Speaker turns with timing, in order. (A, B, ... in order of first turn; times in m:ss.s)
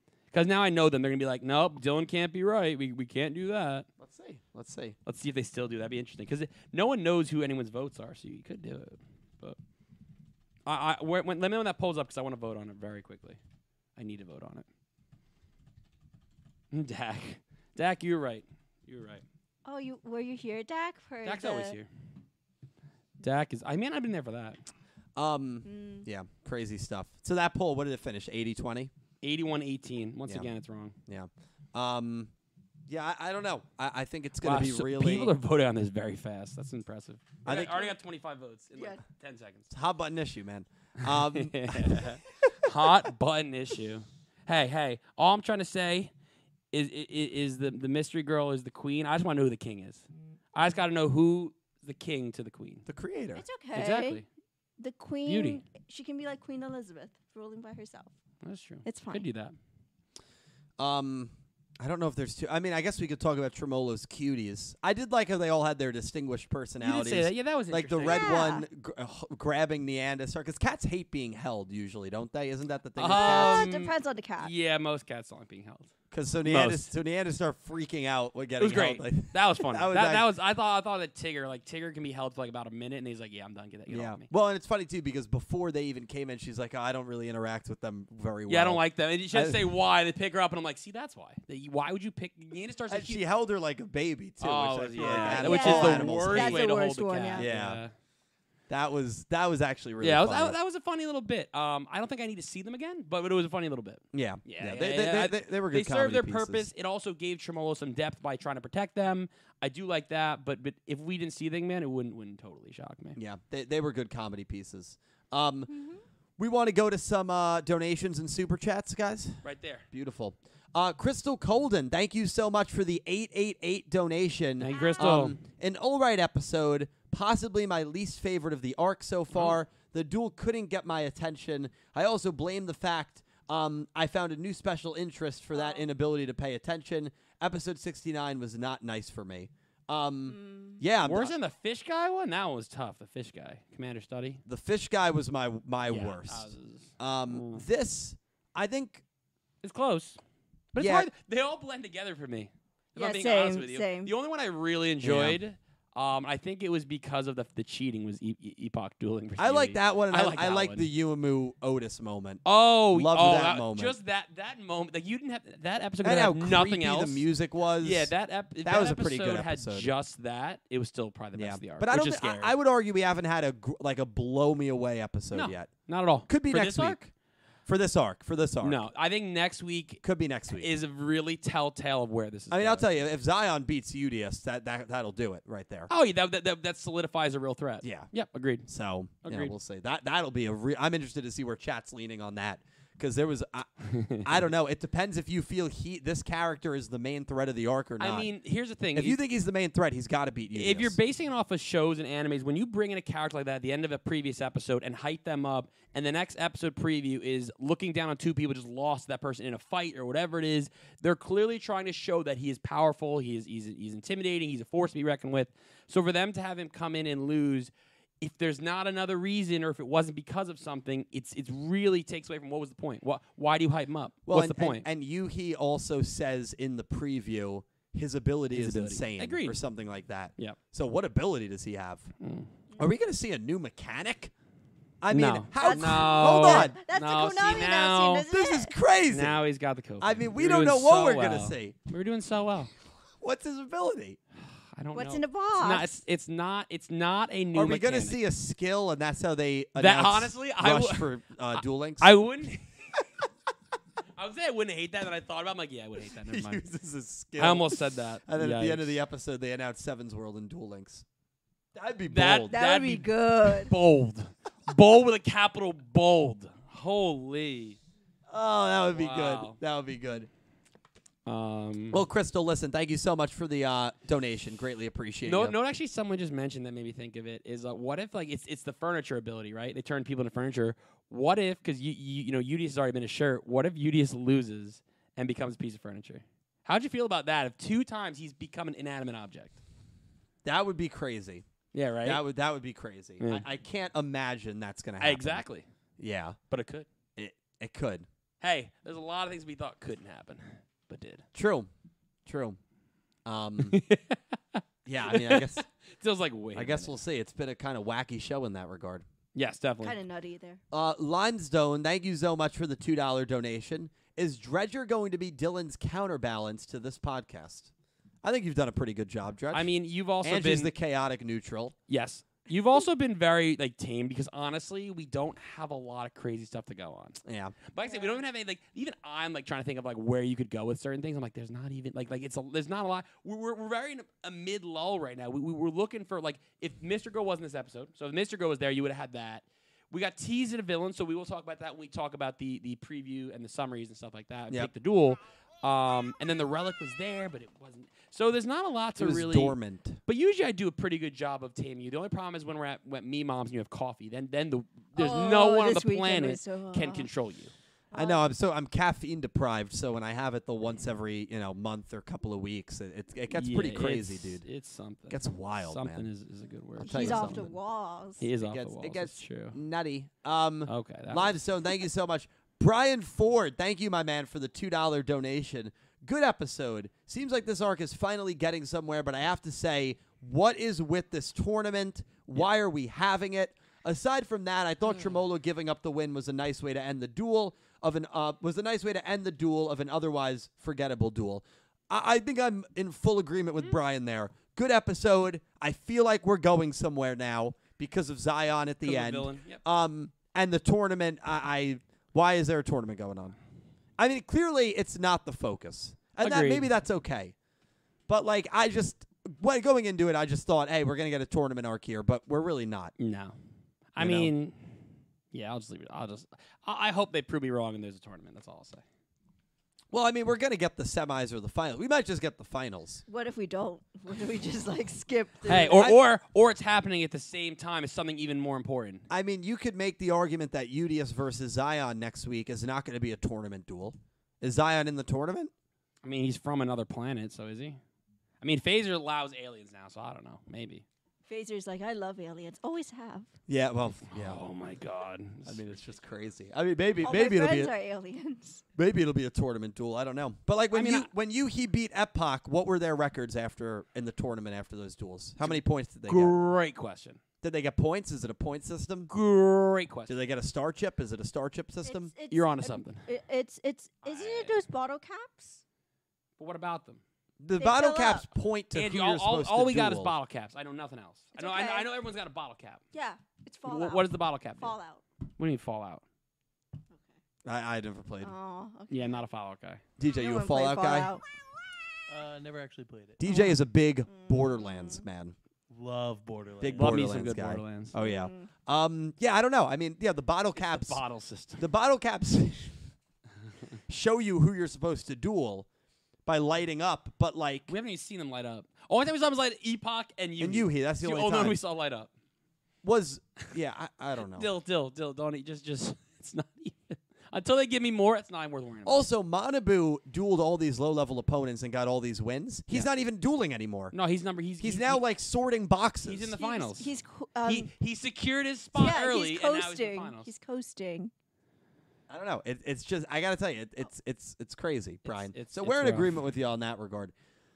0:00.3-0:03.8 A
0:04.0-0:05.0 B
0:05.0-0:09.6 A
0:10.6-0:13.4 A
0:14.0-0:14.6 A
0:16.7-0:19.2 A
0:19.6-0:21.7 C
0:21.2-0:21.9 A
0:23.2-0:24.6 A
0:25.2-0:28.9 B
0:25.6-0:26.1 C
0:29.2-0:31.0 A
0:31.1-0:32.3 B
0:32.9-0:35.3 B
0:34.4-0:39.7 A
0:37.4-0:37.9 B
0:39.7-0:42.7 B
0:41.0-0:46.1 A
0:46.7-0:52.8 A
0:52.9-0:53.4 B
0:53.3-0:54.2 C
0:53.7-0:54.2 A
0:54.8-0:58.1 C
0:55.2-0:55.6 A
0:58.4-0:59.5 A
0:58.8-0:59.2 C
1:00.8-1:13.7 B
1:06.8-1:08.4 A
1:08.0-1:08.6 C
1:13.0-1:15.9 A
1:13.1-1:14.5 C
1:16.1-1:20.2 B
1:16.4-1:16.9 A
1:18.6-1:24.2 A
1:23.9-1:28.8 B
1:28.5-1:33.2 A
1:29.3-1:29.6 B
1:32.9-1:36.6 B
1:34.4-1:37.9 A
1:35.0-1:37.5 C
1:37.3-1:37.8 B
1:38.7-1:40.6 B
1:40.0-1:53.2 A
1:44.1-1:46.7 B
1:53.2-1:55.7 B
1:55.7-1:56.0 C
1:56.4-2:21.3 B
1:59.4-1:59.8 A
2:04.6-2:05.4 A
2:04.6-2:05.1 C
2:20.3-2:20.8 C
2:21.0-2:24.4 A
2:24.4-2:29.0 B
2:25.9-2:27.6 A
2:29.6-2:30.2 A
2:30.7-2:40.9 A
2:30.8-2:31.1 B
2:33.0-2:34.1 C
2:35.0-2:35.4 B
2:39.4-2:43.9 B
2:42.4-2:47.2 A
2:46.0-2:48.1 B
2:47.8-2:52.5 A
2:48.6-2:49.9 B
2:51.3-2:55.7 B
2:55.3-2:57.0 A
2:56.3-2:57.1 B
2:57.7-2:58.8 B
2:58.6-3:02.9 A
3:00.0-3:00.7 B
3:02.5-3:05.9 B
3:05.9-3:08.7 A
3:07.8-3:08.1 B
3:08.7-3:13.7 B
3:09.2-3:09.5 A
3:13.9-3:14.3 A
3:14.2-3:18.3 B
3:18.0-3:19.2 A
3:18.9-3:21.0 B
3:20.5-3:44.8 A
3:44.3-3:52.1 B
3:48.5-3:49.6 A
3:52.2-3:52.5 A
3:52.8-3:54.3 B
3:55.0-3:56.7 B
3:55.1-3:58.3 A
3:55.6-3:58.8 C
3:58.3-3:59.4 B
3:59.1-4:02.7 A
4:00.0-4:01.7 B
4:03.2-4:04.2 B
4:04.7-4:08.2 A
4:04.9-4:05.9 C
4:07.5-4:12.1 B
4:09.8-4:12.7 A
4:14.2-4:16.6 A
4:16.2-4:21.0 B
4:17.4-4:18.9 A
4:21.7-4:22.6 B
4:22.1-4:27.8 A
4:22.5-4:23.7 C
4:28.3-4:30.3 B
4:28.9-4:29.6 A
4:31.2-4:32.0 A
4:31.9-4:35.5 B
4:35.2-4:49.6 A
4:50.4-4:51.4 B
4:51.7-4:52.2 A
4:52.0-4:55.4 B
4:53.2-4:53.4 A
4:55.0-4:55.6 A
4:56.0-4:56.4 B
4:56.5-4:56.9 A
4:57.2-4:58.0 B
4:58.4-5:01.2 A
5:01.3-5:01.7 B
5:02.2-5:02.6 B
5:03.2-5:03.8 B
5:03.6-5:07.0 A
5:04.8-5:05.6 B
5:06.5-5:09.0 B
5:09.3-5:10.0 A
5:09.8-5:10.6 C
5:10.7-5:17.7 B
5:18.2-5:19.7 B
5:19.5-5:20.7 A
5:20.2-5:21.7 B
5:21.9-5:49.6 A
5:27.2-5:27.5 B
5:27.8-5:28.2 C
5:49.0-5:50.0 B
5:50.1-5:57.5 A
5:55.0-5:57.1 C
5:57.9-5:58.2 C
5:57.9-6:04.4 B
6:03.3-6:07.5 A
6:05.1-6:06.0 B
6:06.8-6:08.3 C
6:06.8-6:07.5 B
6:08.2-6:09.6 A
6:08.4-6:43.4 B
6:10.7-6:11.4 A
6:38.8-6:39.6 A
6:44.0-6:47.3 B
6:46.2-6:46.7 A
6:48.1-6:52.9 B
6:53.0-6:53.4 A
6:54.0-6:58.8 A
6:54.0-6:54.3 B
6:59.9-7:03.0 B
7:03.1-7:05.9 C
7:05.4-7:09.0 A
7:09.1-7:15.5 B
7:16.0-7:17.8 A
7:18.4-7:20.8 A
7:21.3-7:23.3 C
7:23.5-7:24.4 B
7:24.1-7:25.8 A
7:25.4-7:27.7 B
7:27.0-7:28.6 C
7:28.8-7:36.4 B
7:30.7-7:31.1 A
7:35.4-7:37.2 A
7:37.4-7:39.1 B
7:39.1-7:40.1 A
7:40.1-7:42.1 B
7:41.8-7:45.6 C
7:42.3-7:43.0 A
7:44.0-7:44.6 A
7:46.4-7:47.0 A
7:47.4-7:50.1 B
7:47.6-7:48.3 C
7:48.7-7:52.8 A
7:51.3-7:51.9 C
7:52.9-7:55.0 C
7:53.6-7:54.8 A
7:55.4-7:56.0 A
7:56.9-7:57.2 C
7:57.4-7:58.3 B
7:58.2-7:59.2 C
7:58.9-7:59.8 A
8:00.0-8:01.1 B
8:00.1-8:01.2 C
8:02.1-8:03.2 D
8:03.2-8:05.3 B
8:03.3-8:03.6 C
8:04.1-8:05.0 C
8:05.7-8:07.0 D
8:06.6-8:11.0 B
8:06.7-8:07.9 A
8:08.0-8:08.5 C
8:10.6-8:11.6 A
8:11.6-8:12.8 B
8:13.9-8:15.7 B
8:16.2-8:17.7 B
8:17.7-8:22.1 A
8:20.4-8:21.6 B
8:22.8-8:24.5 B
8:24.3-8:29.0 A
8:28.8-8:33.9 B
8:33.9-8:35.0 A
8:34.6-8:36.3 B
8:36.0-8:36.9 A
8:36.4-8:37.7 C
8:37.4-8:40.3 A
8:38.7-8:41.1 C
8:42.1-8:47.1 B
8:45.0-8:46.1 A